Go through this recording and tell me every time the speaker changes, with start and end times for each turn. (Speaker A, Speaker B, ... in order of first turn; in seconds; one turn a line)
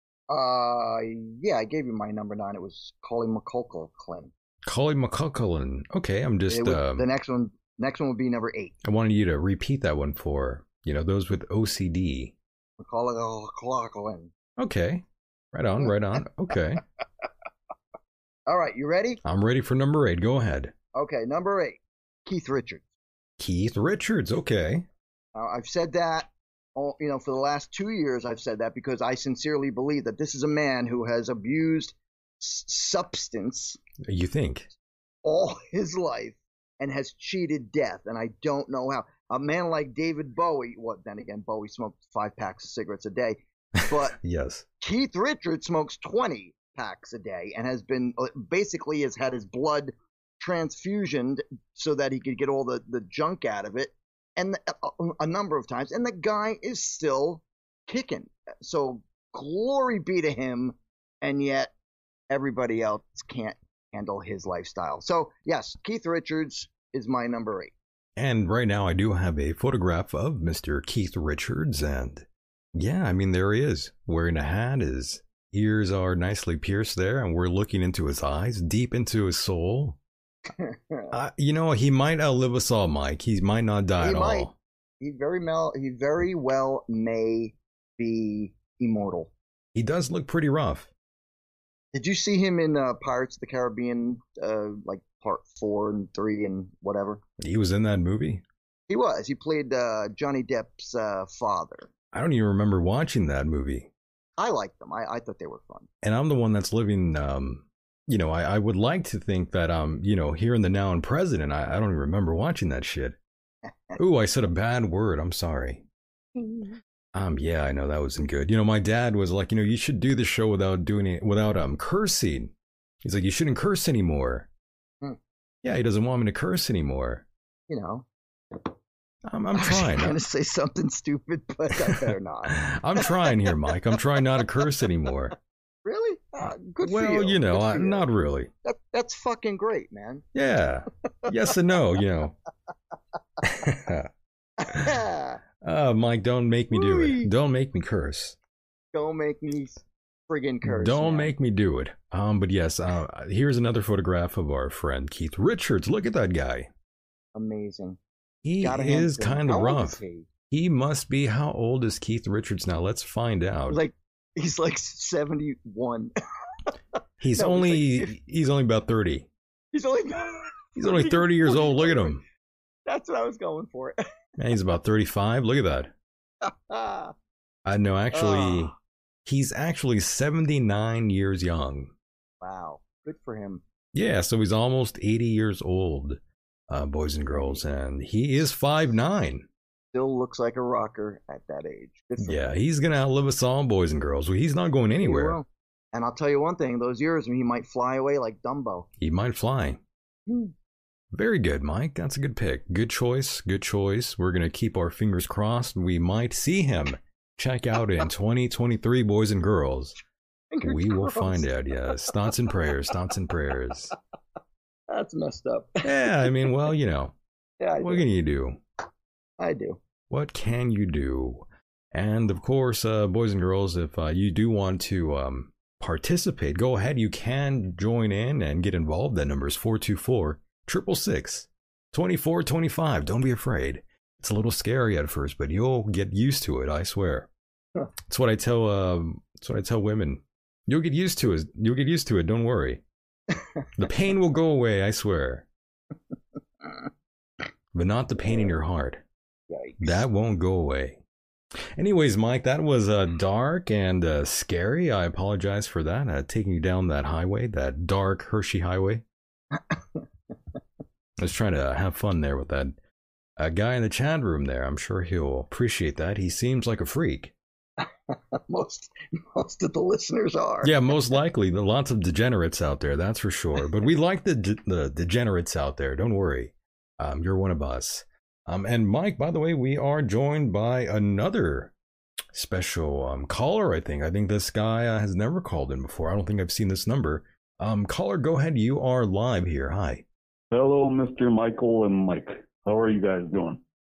Speaker A: 0.3-4.3
Speaker B: 4.6-7.0
Speaker A: 6.5-8.7
Speaker B: 8.8-12.3
Speaker A: 12.8-14.3
Speaker B: 14.6-16.8
Speaker A: 18.5-19.2
Speaker B: 19.2-20.7
Speaker A: 20.9-22.9
Speaker B: 23.4-24.9
Speaker A: 25.3-33.8
Speaker B: 34.0-34.7
Speaker A: 35.2-44.1
Speaker B: 43.9-44.6
Speaker A: 44.8-61.7
Speaker A: 62.3-67.7
Speaker B: 68.2-80.0
Speaker A: 80.5-81.1
Speaker B: 81.1-84.5
Speaker A: 84.0-84.5
Speaker A: 85.0-89.3
Speaker B: 89.7-90.9
Speaker A: 91.9-97.2
Speaker B: 97.4-98.4
Speaker A: 98.9-101.9
Speaker B: 102.1-103.9
Speaker A: 104.4-105.9
Speaker B: 106.0-113.2
Speaker A: 113.7-114.0
Speaker B: 114.0-115.8
Speaker A: 116.3-116.8
Speaker B: 117.1-124.5
Speaker B: 125.6-127.2
Speaker A: 127.7-128.7
Speaker B: 129.2-130.2
Speaker A: 129.6-133.3
Speaker B: 131.9-135.3
Speaker A: 135.8-138.1
Speaker B: 136.8-138.5
Speaker A: 138.6-140.2
Speaker B: 140.3-142.3
Speaker B: 143.4-144.1
Speaker A: 144.6-145.4
Speaker B: 145.6-148.4
Speaker A: 146.7-147.3
Speaker A: 148.9-151.3
Speaker B: 150.6-156.7
Speaker A: 157.3-158.0
Speaker B: 158.4-160.0
Speaker A: 158.6-160.3
Speaker B: 160.5-163.8
Speaker A: 163.7-166.1
Speaker B: 167.2-169.3
Speaker A: 167.3-168.1
Speaker A: 169.7-172.2
Speaker B: 170.8-172.2
Speaker A: 172.8-174.0
Speaker B: 174.4-175.9
Speaker A: 176.4-177.1
Speaker B: 177.6-178.7
Speaker A: 178.1-178.7
Speaker B: 179.2-181.9
Speaker A: 182.4-183.6
Speaker B: 183.9-189.5
Speaker A: 187.3-187.6
Speaker A: 189.9-192.4
Speaker B: 192.2-195.4
Speaker A: 195.0-198.9
Speaker B: 199.0-199.8
Speaker A: 200.3-200.5
Speaker B: 201.1-210.0
Speaker A: 210.5-212.1
Speaker B: 210.6-213.9
Speaker A: 214.9-216.5
Speaker B: 215.8-217.1
Speaker A: 217.6-218.1
Speaker B: 217.8-218.6
Speaker A: 219.4-219.8
Speaker B: 220.1-237.3
Speaker B: 238.1-242.8
Speaker B: 243.8-245.5
Speaker B: 247.7-249.0
Speaker A: 248.2-248.5
Speaker A: 249.5-250.0
Speaker B: 249.8-251.0
Speaker B: 251.8-259.0
Speaker A: 259.5-260.0
Speaker B: 261.2-262.7
Speaker B: 263.4-267.3
Speaker A: 267.8-270.8
Speaker B: 270.6-281.7
Speaker B: 282.3-290.0
Speaker C: 290.5-293.6